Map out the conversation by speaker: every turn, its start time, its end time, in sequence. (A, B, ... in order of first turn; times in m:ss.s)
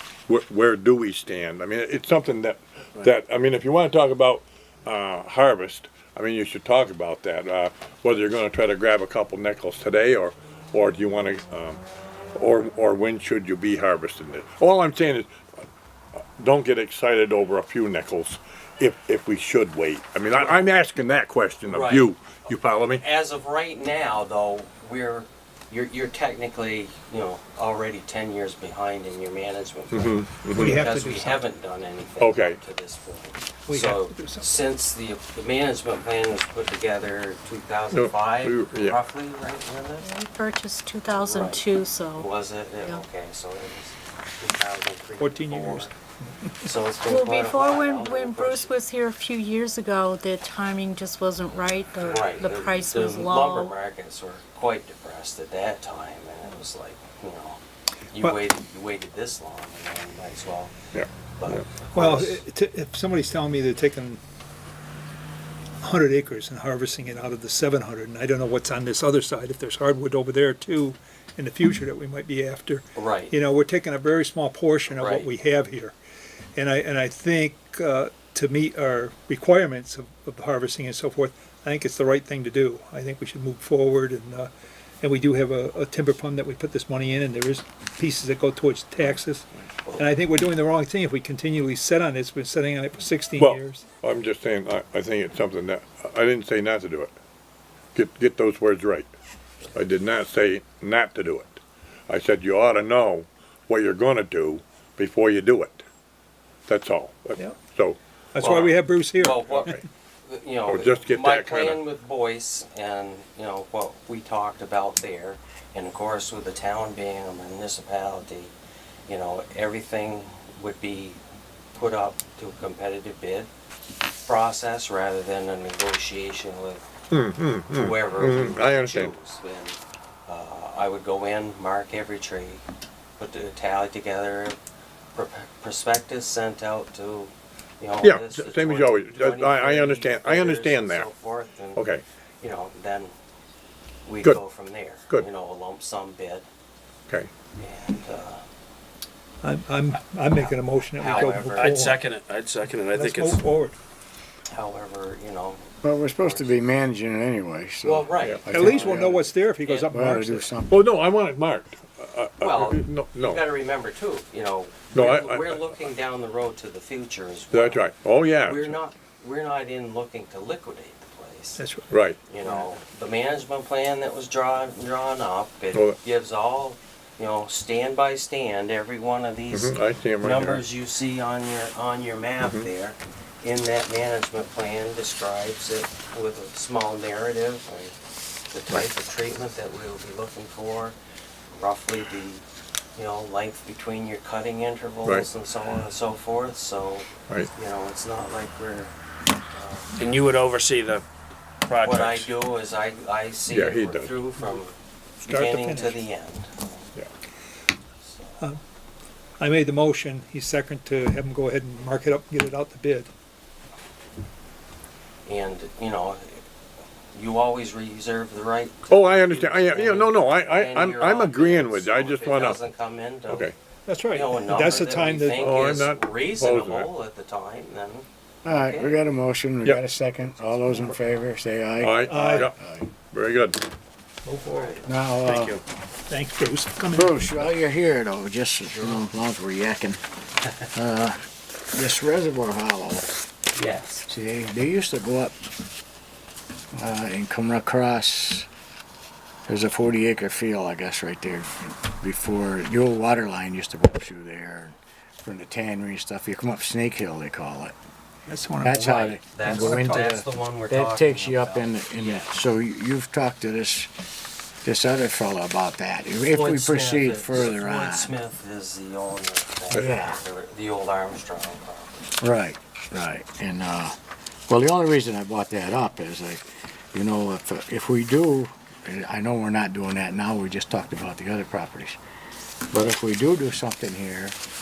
0:00.3-0:11.8 A
0:12.4-0:15.3 A
0:16.4-0:23.0 A
0:20.4-0:20.6 B
0:21.7-0:22.1 B
0:22.9-0:40.1 B
0:29.9-0:30.8 A
0:30.5-0:31.4 C
0:32.2-0:32.6 A
0:33.7-0:34.4 C
0:37.9-0:39.0 A
0:40.0-0:42.3 D
0:41.1-0:41.6 B
0:42.2-0:45.9 B
0:45.2-0:45.9 C
0:46.6-0:48.7 B
0:47.0-0:53.7 D
0:52.0-0:57.6 B
0:58.1-1:00.7 B
1:01.0-1:01.6 A
1:01.4-1:02.4 B
1:02.0-1:04.2 C
1:05.8-1:16.0 C
1:13.0-1:13.3 B
1:14.9-1:15.3 B
1:16.6-1:33.9 C
1:33.4-1:37.1 A
1:38.0-1:39.1 A
1:39.7-1:45.8 A
1:46.7-1:48.7 A
1:48.4-1:49.8 C
1:48.4-1:58.5 B
1:49.4-1:49.8 A
1:50.7-1:51.8 A
1:59.1-2:01.2 B
2:01.7-2:03.5 B
2:04.3-2:06.9 B
2:07.1-2:09.1 A
2:07.7-2:12.6 B
2:13.2-2:14.6 B
2:15.2-2:21.8 B
2:18.0-2:21.1 A
2:21.8-2:22.0 A
2:22.4-2:23.1 B
2:24.1-2:26.5 B
2:27.6-2:28.4 B
2:29.4-2:32.0 C
2:30.3-2:31.9 B
2:31.1-2:33.5 E
2:32.9-2:33.8 C
2:34.5-2:36.6 B
2:35.8-2:39.3 F
2:37.8-2:40.0 B
2:38.5-2:40.5 C
2:39.9-2:40.8 F
2:40.7-2:43.4 A
2:42.4-2:47.9 B
2:45.0-2:45.7 A
2:47.5-2:48.8 A
2:48.4-2:51.6 B
2:51.6-2:51.9 C
2:51.9-2:52.5 A
2:52.3-3:08.0 B
2:59.5-3:00.6 A
3:08.5-3:11.0 B
3:11.5-3:12.4 B
3:13.0-3:18.9 B
3:19.5-3:20.0 B
3:20.0-3:21.0 E
3:21.7-3:22.3 E
3:21.8-3:27.0 B
3:23.5-3:24.2 A
3:25.3-3:26.0 C
3:28.0-3:28.6 B
3:29.4-3:33.1 C
3:35.3-3:36.4 B
3:37.1-3:43.5 B
3:38.9-3:42.6 A
3:43.3-3:43.6 A
3:43.9-3:45.5 C
3:44.1-3:49.0 B
3:45.3-3:46.9 A
3:48.4-3:52.9 F
3:51.8-3:52.5 A
3:52.1-3:52.5 C
3:53.1-3:53.6 A
3:54.3-3:54.8 C
3:54.5-3:54.9 B
3:54.8-3:55.6 F
3:55.2-3:55.6 E
3:56.1-3:57.3 C
3:56.9-4:00.0 F
3:58.7-3:59.1 B
4:00.7-4:01.2 F
4:01.7-4:03.1 F
4:03.6-4:04.1 B
4:04.1-4:05.4 F
4:06.7-4:08.5 F
4:09.5-4:17.8 F
4:18.3-4:18.9 C
4:18.6-4:23.9 F
4:18.7-4:22.2 B
4:19.5-4:20.1 C
4:24.6-4:28.1 F
4:26.3-4:32.2 B
4:29.7-4:30.0 A
4:29.7-4:30.2 F
4:32.2-4:34.0 F
4:34.5-4:42.0 F
4:42.7-4:44.4 F